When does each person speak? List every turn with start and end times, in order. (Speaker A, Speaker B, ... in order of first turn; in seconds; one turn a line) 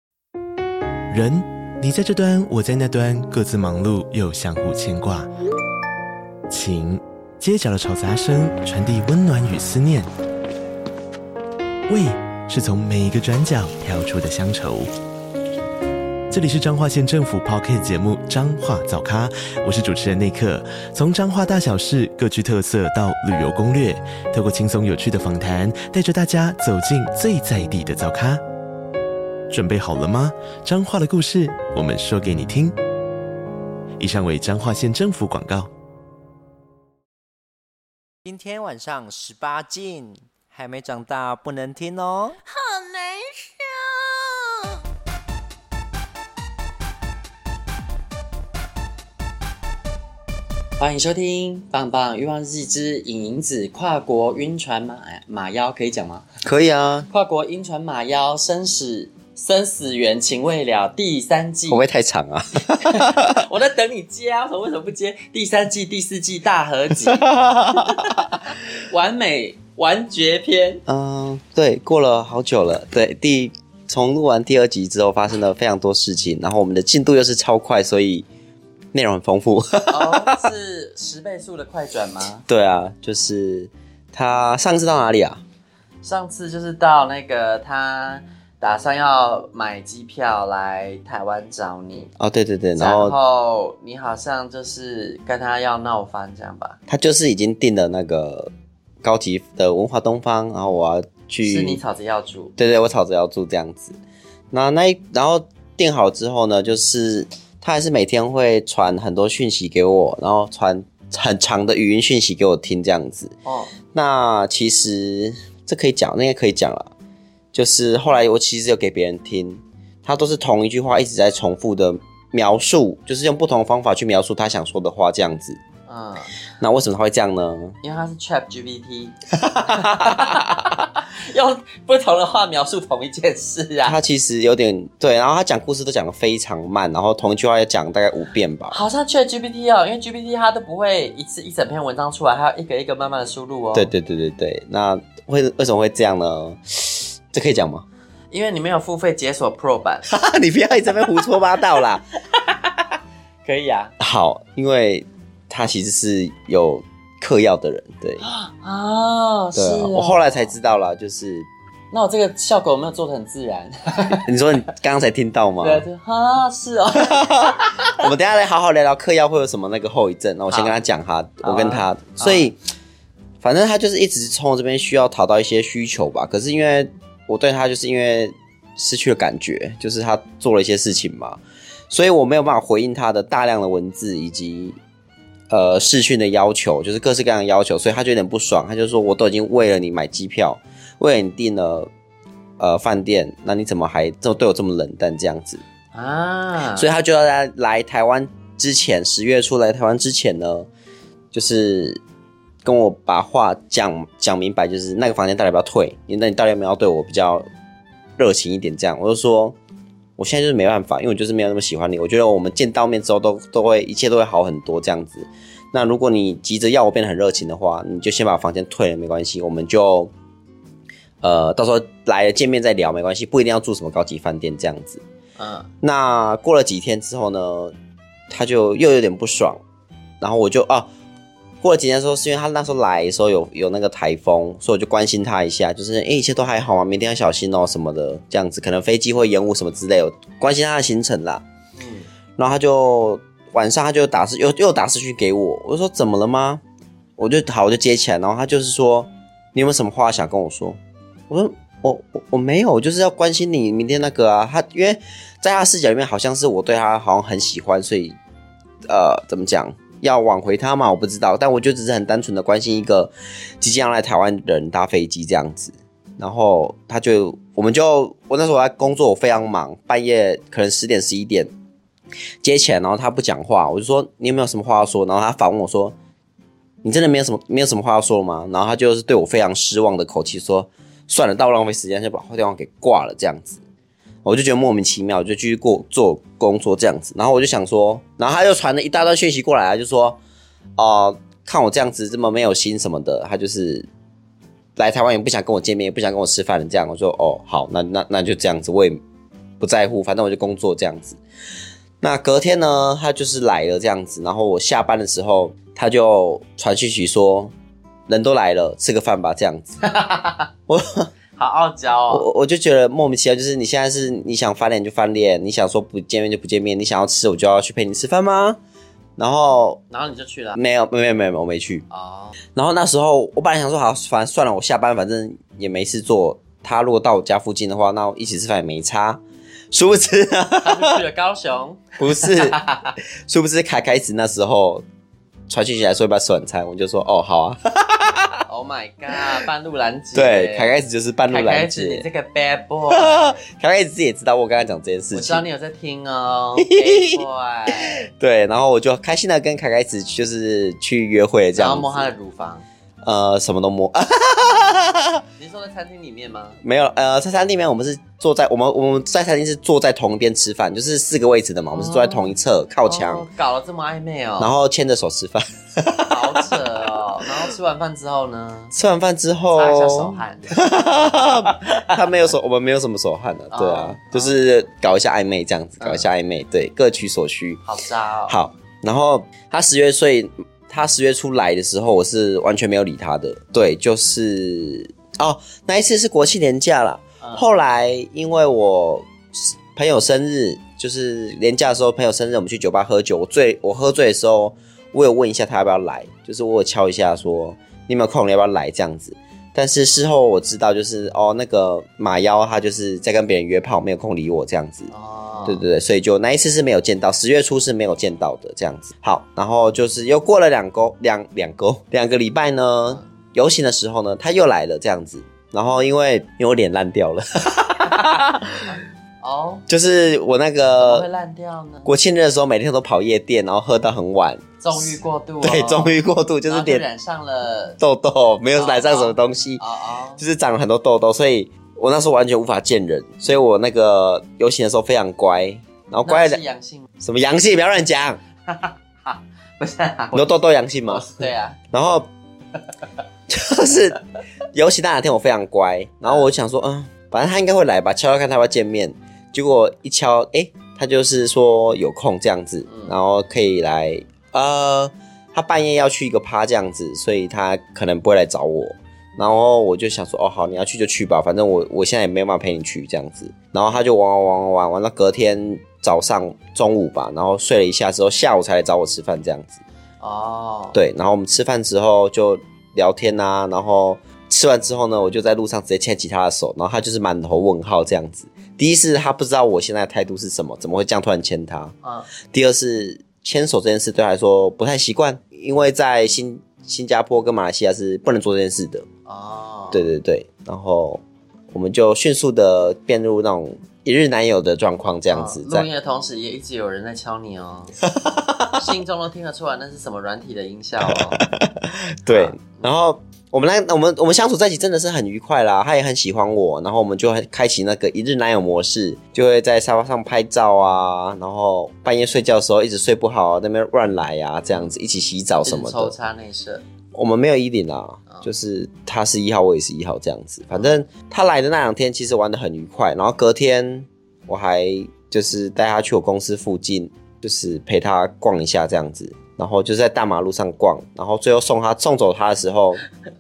Speaker A: 1.1-5.3
Speaker A: 6.5-10.1
Speaker A: 11.9-14.9
Speaker A: 16.3-28.4
Speaker A: 29.5-32.8
Speaker A: 34.0-35.7
Speaker B: 38.2-42.4
Speaker C: 42.5-44.9
Speaker D: 50.8-56.2
Speaker E: 56.4-57.1
Speaker D: 57.1-61.8
Speaker E: 61.7-63.4
Speaker D: 62.8-70.8
Speaker E: 67.0-68.3
Speaker E: 70.9-78.3
Speaker E: 78.9-80.4
Speaker D: 79.9-82.5
Speaker E: 82.5-85.4
Speaker D: 86.0-92.1
Speaker E: 92.2-93.2
Speaker D: 92.8-96.8
Speaker E: 96.9-98.5
Speaker E: 99.0-101.8
Speaker D: 101.4-102.5
Speaker E: 102.6-104.0
Speaker E: 104.5-113.3
Speaker D: 113.5-113.7
Speaker E: 113.9-116.9
Speaker E: 117.5-125.6
Speaker D: 125.9-126.3
Speaker E: 126.6-127.8
Speaker D: 127.8-134.0
Speaker E: 129.4-130.8
Speaker E: 133.8-138.8
Speaker D: 138.7-143.9
Speaker E: 143.7-147.9
Speaker D: 148.3-150.1
Speaker E: 150.1-152.1
Speaker D: 153.4-153.9
Speaker E: 154.0-158.2
Speaker D: 158.2-160.5
Speaker E: 159.6-161.5
Speaker D: 161.9-164.3
Speaker E: 164.2-165.9
Speaker D: 165.6-168.1
Speaker E: 167.0-172.6
Speaker D: 170.5-170.8
Speaker D: 171.4-172.5
Speaker E: 173.4-184.8
Speaker E: 185.5-191.9
Speaker E: 192.6-195.6
Speaker D: 195.9-196.9
Speaker E: 196.7-200.7
Speaker E: 201.3-202.0
Speaker E: 202.7-207.5
Speaker E: 208.2-209.6
Speaker E: 210.2-220.1
Speaker E: 221.2-225.0
Speaker D: 225.4-225.7
Speaker E: 225.8-227.8
Speaker E: 228.3-229.6
Speaker E: 230.2-230.9
Speaker E: 231.6-241.4
Speaker D: 241.8-242.1
Speaker E: 242.4-246.6
Speaker E: 247.2-250.8
Speaker E: 251.3-258.2
Speaker E: 258.9-271.5
Speaker E: 272.4-275.9
Speaker E: 276.8-283.6
Speaker E: 284.2-290.2
Speaker E: 290.8-293.9
Speaker E: 294.8-299.0
Speaker E: 299.6-301.2
Speaker E: 302.0-307.5
Speaker E: 308.1-309.8
Speaker D: 309.8-310.5
Speaker E: 310.7-311.1
Speaker D: 311.4-312.3
Speaker E: 312.1-318.6
Speaker E: 319.2-319.8
Speaker D: 319.9-320.6
Speaker E: 320.6-321.9
Speaker D: 321.9-322.4
Speaker E: 322.6-331.0
Speaker D: 330.6-332.9
Speaker E: 332.0-332.6
Speaker E: 333.3-334.9
Speaker E: 335.5-338.4
Speaker D: 338.5-340.7
Speaker E: 340.1-342.1
Speaker D: 341.3-343.4
Speaker E: 342.9-345.4
Speaker D: 345.1-348.1
Speaker E: 346.6-347.2
Speaker E: 348.0-352.1
Speaker D: 351.6-352.6
Speaker E: 353.0-355.2
Speaker D: 355.4-356.6
Speaker E: 356.6-363.3
Speaker D: 361.7-362.4
Speaker D: 362.9-364.5
Speaker E: 364.4-367.3
Speaker D: 366.1-368.8
Speaker E: 368.7-377.6
Speaker D: 369.5-370.7
Speaker D: 371.5-372.0
Speaker D: 373.5-374.4
Speaker D: 375.8-376.1
Speaker D: 377.6-378.4
Speaker E: 378.3-404.9
Speaker D: 404.9-405.6
Speaker E: 405.5-418.8
Speaker D: 417.9-419.7
Speaker E: 419.7-421.1
Speaker D: 420.8-421.9
Speaker E: 421.9-426.9
Speaker D: 424.6-427.8
Speaker E: 427.8-429.6
Speaker D: 428.6-430.2
Speaker E: 430.2-436.4
Speaker D: 436.1-436.9
Speaker E: 437.0-438.2
Speaker D: 438.5-441.6
Speaker E: 440.1-442.1
Speaker E: 443.3-444.0
Speaker E: 444.5-469.6
Speaker D: 452.7-452.9
Speaker D: 470.0-470.8
Speaker E: 470.7-488.9
Speaker D: 481.8-482.1
Speaker D: 489.1-489.9
Speaker E: 489.7-495.7
Speaker D: 495.1-497.8
Speaker E: 497.9-498.6
Speaker D: 498.5-501.3
Speaker E: 500.8-515.9
Speaker D: 502.1-502.6
Speaker D: 515.4-516.6
Speaker E: 516.9-532.8